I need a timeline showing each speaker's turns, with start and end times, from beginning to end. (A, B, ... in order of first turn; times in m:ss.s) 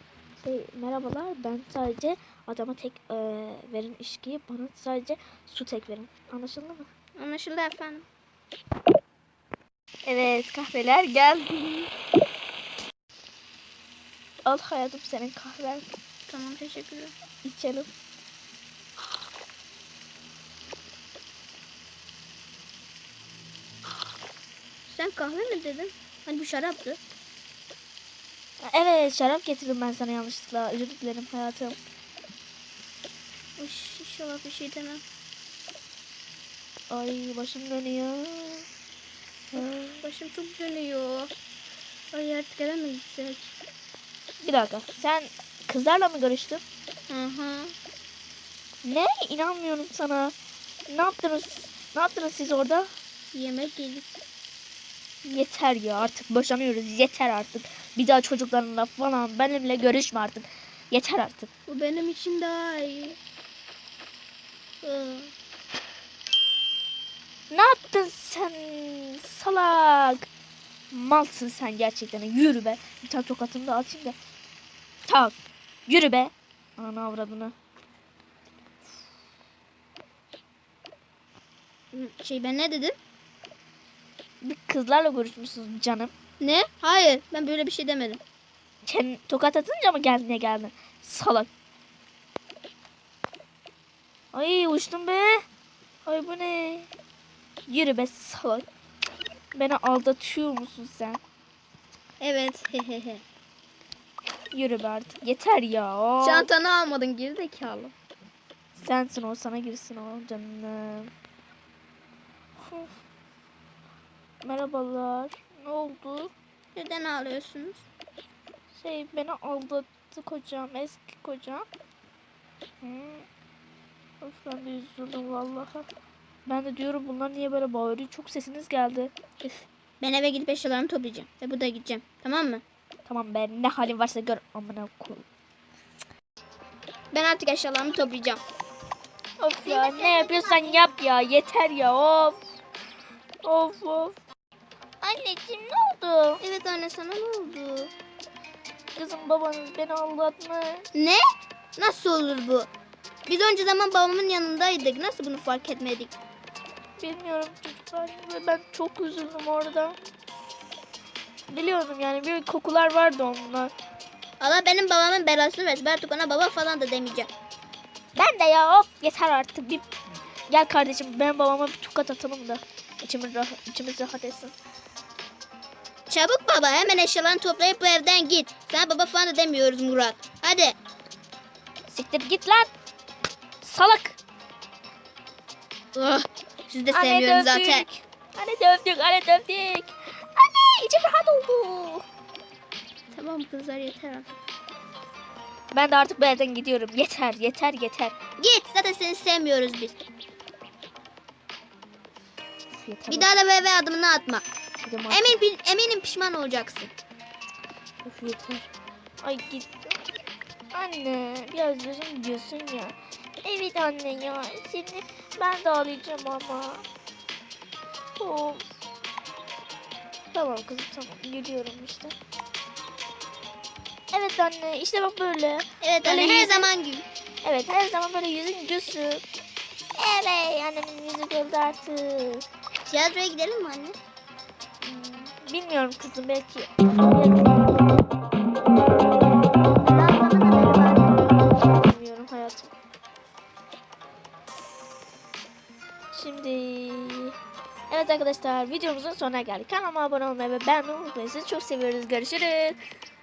0:00.4-0:06.9 A
0:07.2-0:08.0 B
0:10.1-0:11.9 A
0:14.4-0:15.9 A
0:16.3-0:17.1 B
0:17.4-0:17.9 A
0:24.9-0:27.0 B
0:28.6-0:31.8 A
0:33.6-0:35.0 B
0:36.9-0:38.6 A
0:39.5-0:40.0 A
0:39.6-0:41.3 B
0:42.1-0:43.5 B
0:44.4-0:46.6 A
0:47.1-0:47.7 B
0:48.8-0:50.3 A
0:50.9-0:52.9 A
0:53.3-0:54.1 B
0:55.2-1:01.5 A
1:01.7-1:03.2 B
1:04.8-1:05.3 B
1:07.5-1:10.3 A
1:10.9-1:14.2 A
1:15.1-1:15.4 A
1:15.9-1:17.5 A
1:21.9-1:23.0 B
1:24.4-1:26.1 A
1:26.4-1:28.2 B
1:28.8-1:31.5 A
1:34.3-1:35.4 A
1:36.0-1:36.9 A
1:37.7-1:38.6 A
1:39.5-1:41.2 A
1:42.2-1:43.2 B
1:44.5-1:46.5 A
1:46.2-1:47.9 B
1:48.8-1:51.1 A
1:52.6-1:52.9 A
1:54.4-1:56.3 A
1:56.8-1:57.9 B
1:58.7-2:01.7 A
2:02.8-2:03.3 A
2:04.2-2:05.9 A
2:06.5-2:09.1 A
2:09.4-2:12.6 B
2:13.1-2:15.3 A
2:17.1-2:18.4 B
2:19.4-2:22.4 A
2:19.6-2:20.8 B
2:23.4-2:24.2 A
2:25.0-2:26.4 A
2:26.4-2:27.9 B
2:28.9-2:30.9 A
2:30.9-2:31.2 B
2:31.8-2:32.7 B
2:33.3-2:36.2 B
2:37.0-2:40.0 A
2:41.5-2:43.7 A
2:44.4-2:47.3 B
2:48.2-2:49.9 A
2:50.5-2:54.6 A
2:56.1-3:00.8 B
3:01.9-3:02.7 A
3:03.6-3:04.2 A
3:06.0-3:07.9 B
3:06.9-3:12.0 A
3:13.1-3:14.4 B
3:15.7-3:18.2 A
3:18.4-3:20.0 B
3:22.7-3:23.3 A
3:23.1-3:24.4 B
3:24.8-3:25.3 A
3:25.1-3:26.9 B
3:28.0-3:28.7 A
3:29.2-3:30.0 A
3:30.7-3:36.8 A
3:38.2-3:38.6 A
3:40.3-3:42.2 A
3:44.1-3:46.7 A
3:45.8-3:47.0 B
3:47.4-3:49.2 A
3:50.0-3:52.4 A
3:52.9-3:54.0 B
3:54.8-3:57.8 A
3:59.8-4:01.4 B
4:01.4-4:02.7 A
4:06.1-4:07.4 A
4:07.9-4:12.8 A